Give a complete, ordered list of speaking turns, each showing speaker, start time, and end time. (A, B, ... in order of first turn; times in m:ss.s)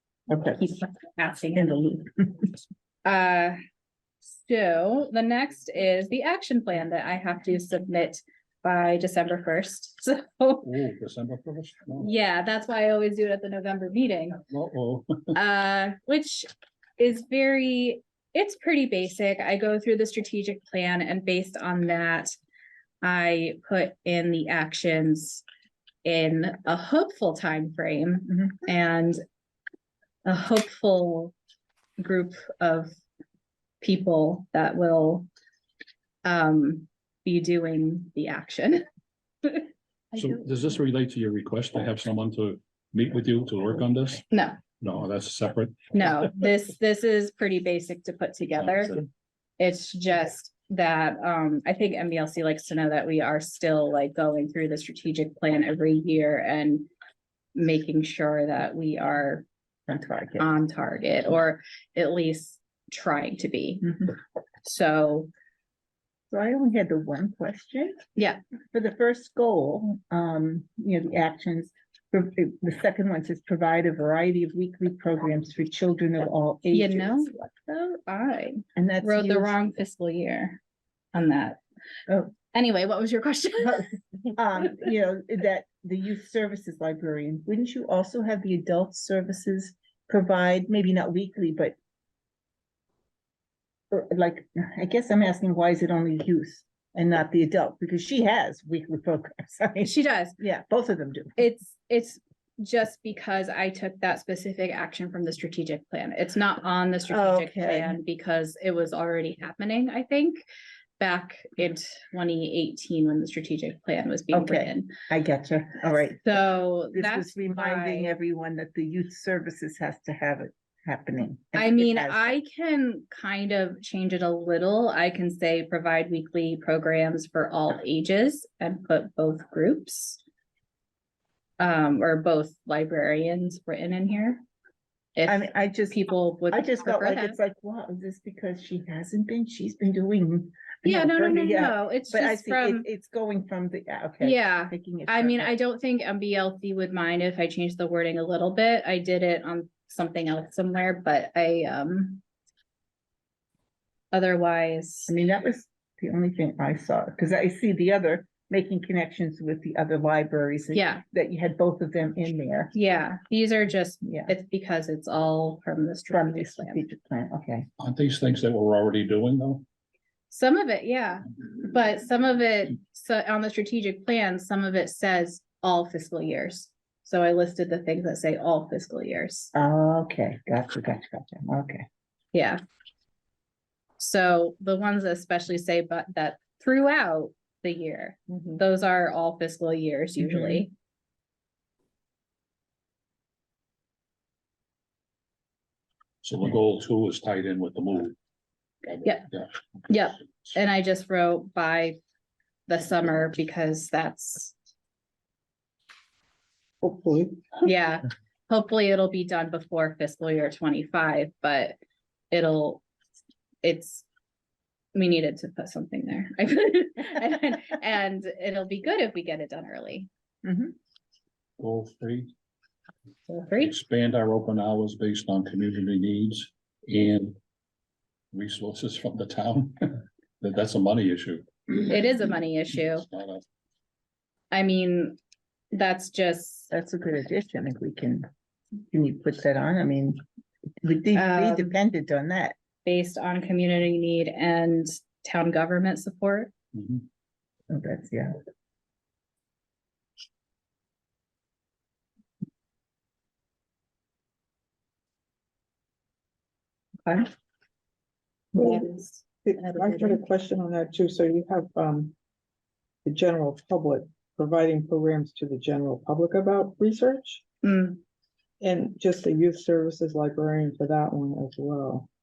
0:00.3-0:00.6 A
0:00.6-0:01.9 B
0:01.6-0:02.3 C
0:03.0-0:03.6 B
0:04.4-0:10.7 B
0:10.6-0:12.1 D
0:12.0-0:14.4 B
0:14.5-0:15.3 D
0:15.3-0:22.3 B
0:23.0-0:25.4 B
0:26.0-0:29.2 B
0:30.2-0:31.3 B
0:32.0-0:32.9 B
0:33.8-0:35.3 B
0:36.2-0:38.8 B
0:40.2-0:44.2 D
0:44.3-0:44.6 B
0:44.8-0:46.0 D
0:45.9-0:49.0 B
0:48.6-0:49.1 D
0:49.6-0:56.9 B
0:57.5-0:59.4 B
0:59.9-1:00.4 C
1:00.4-1:04.0 B
1:04.6-1:05.3 B
1:06.3-1:08.0 C
1:08.7-1:17.6 C
1:16.7-1:20.6 B
1:18.8-1:19.5 C
1:21.1-1:21.6 B
1:22.5-1:23.8 B
1:23.6-1:31.7 C
1:33.9-1:41.3 C
1:39.8-1:40.4 B
1:41.4-1:50.4 B
1:47.1-1:48.0 C
1:51.0-1:54.9 B
1:54.3-1:56.4 C
1:56.2-1:58.1 B
1:56.9-2:02.3 C
2:01.5-2:10.2 B
2:11.6-2:14.4 B
2:15.2-2:17.4 B
2:15.3-2:25.5 C
2:20.8-2:22.8 B
2:24.2-2:32.2 B
2:34.1-2:35.2 B
2:35.1-2:42.7 C
2:40.7-2:41.0 B
2:42.7-2:46.8 B
2:44.0-2:44.3 C
2:46.1-2:47.7 C
2:47.8-2:49.6 D
2:50.3-2:59.5 B
2:59.5-3:01.8 C
3:02.3-3:02.6 B
3:04.0-3:10.7 B
3:10.2-3:10.6 C
3:16.2-3:18.2 D
3:18.8-3:19.5 D
3:19.9-3:22.0 B
3:22.7-3:24.5 B
3:26.8-3:27.6 A
3:27.6-3:31.8 B
3:32.3-3:32.8 B
3:33.6-3:34.0 B
3:34.9-3:40.1 B
3:40.4-3:40.7 C
3:41.6-3:42.3 D
3:43.3-3:43.7 B
3:43.6-3:47.4 D
3:48.3-3:51.9 D
3:51.8-3:53.0 B
3:52.8-3:53.4 D
3:54.5-3:55.2 B
3:55.7-3:56.7 B
3:56.7-3:58.2 C
3:58.9-4:00.2 C
4:00.8-4:02.5 C
4:01.1-4:01.7 B
4:02.8-4:06.5 B
4:06.7-4:07.0 D
4:07.7-4:08.3 C
4:18.5-4:18.8 A
4:18.5-4:20.2 B
4:19.4-4:22.1 A
4:23.0-4:27.4 A
4:27.6-4:28.0 B
4:28.6-4:32.1 A